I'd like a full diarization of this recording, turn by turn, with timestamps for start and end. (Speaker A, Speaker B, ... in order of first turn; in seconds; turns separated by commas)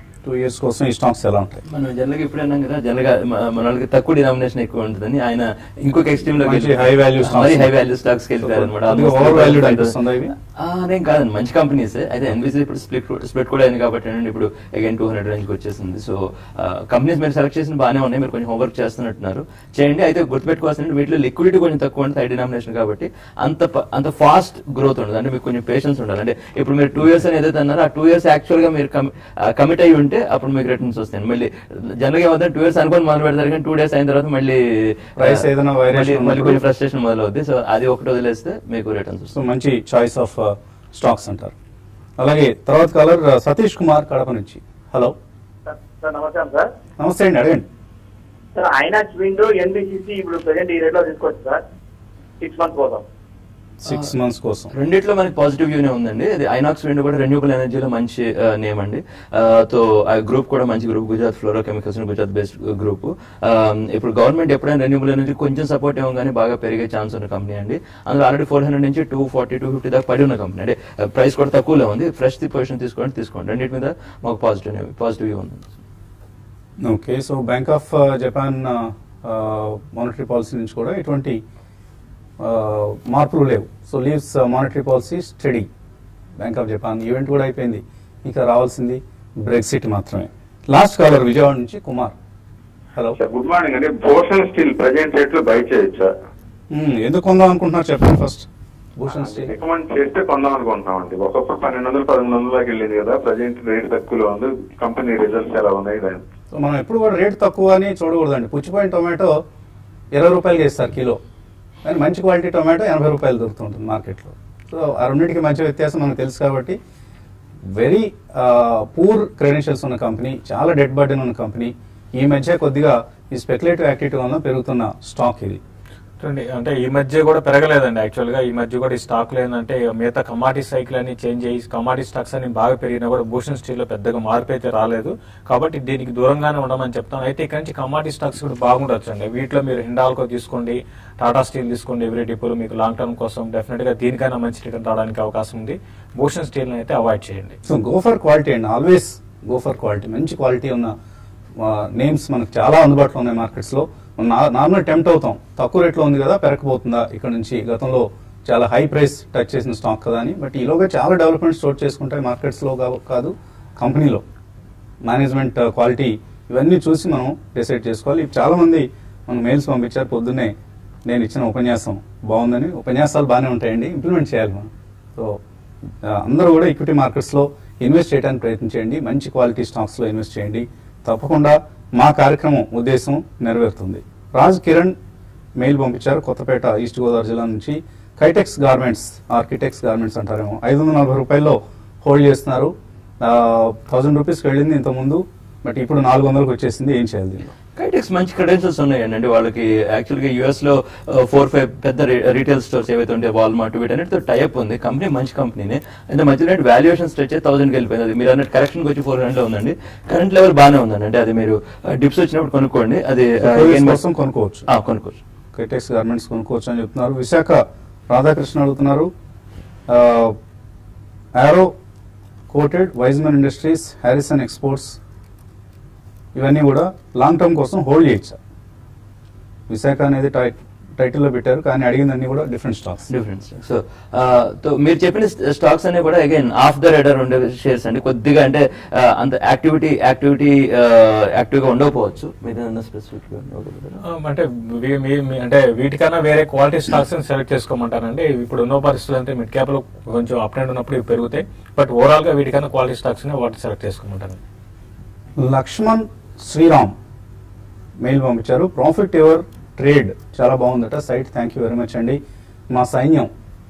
Speaker A: 0.2-1.6, Speaker B: 1.6-9.9, Speaker A: 6.4-7.7, Speaker A: 8.4-10.3, Speaker B: 10.6-39.4, Speaker A: 35.2-36.6, Speaker A: 39.3-41.5, Speaker A: 42.2-45.1, Speaker C: 45.6-46.7, Speaker A: 47.0-47.6, Speaker C: 48.5-51.6, Speaker C: 52.4-53.0, Speaker A: 53.8-54.7, Speaker B: 54.7-75.8, Speaker A: 76.8-81.4, Speaker A: 82.4-85.7, Speaker A: 86.4-92.1, Speaker D: 93.2-96.1, Speaker A: 96.7-98.5, Speaker A: 99.0-99.5, Speaker D: 99.3-106.2, Speaker A: 106.5-109.3, Speaker A: 110.1-111.2, Speaker A: 111.8-116.8, Speaker A: 117.7-125.6, Speaker E: 126.2-147.6, Speaker A: 147.7-150.9, Speaker A: 151.6-164.2, Speaker A: 165.0-170.5, Speaker A: 171.1-175.4, Speaker A: 176.0-184.9, Speaker A: 185.6-197.5, Speaker B: 197.8-214.0, Speaker A: 213.4-214.7, Speaker B: 214.7-215.2, Speaker A: 215.5-219.1, Speaker A: 219.9-220.3, Speaker A: 221.3-221.7, Speaker A: 222.5-224.9, Speaker A: 226.3-228.4, Speaker A: 229.7-233.1, Speaker B: 233.1-244.0, Speaker E: 244.1-254.4, Speaker A: 255.4-256.9, Speaker A: 258.0-262.2, Speaker A: 262.7-263.3